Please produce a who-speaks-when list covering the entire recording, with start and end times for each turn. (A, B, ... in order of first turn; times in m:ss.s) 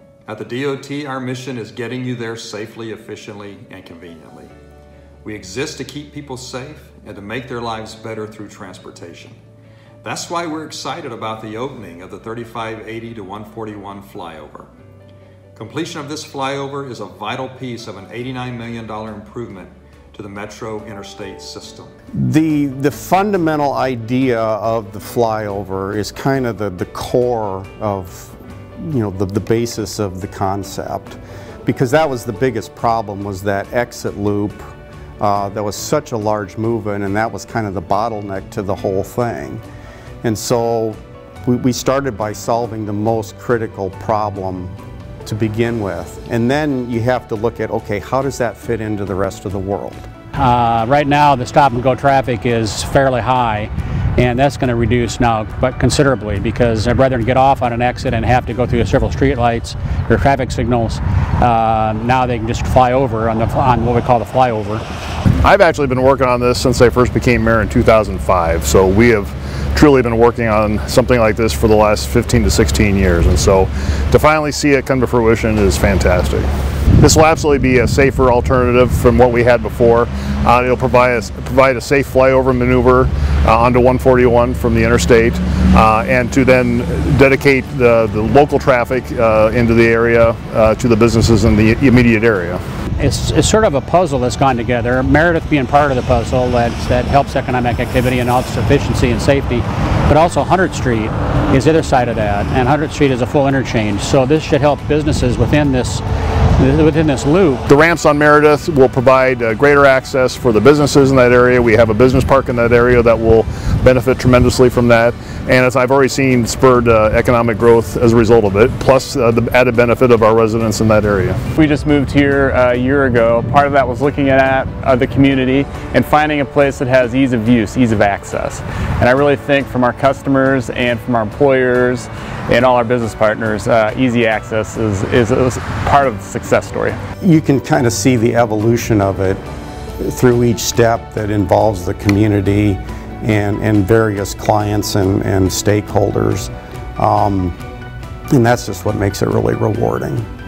0:00.3-0:04.5 A
0:05.2-0:09.4 A
0:10.0-0:14.7 A
0:15.6-0:21.9 A
0:22.2-0:39.6 B
0:40.2-0:50.1 B
0:50.4-1:04.8 C
1:05.4-1:32.6 D
1:33.0-1:46.0 C
1:46.6-1:47.6 C
1:47.7-2:01.4 D
2:01.6-2:17.0 E
2:17.2-2:19.4 B
2:20.0-2:27.6 B
2:28.3-2:30.2 B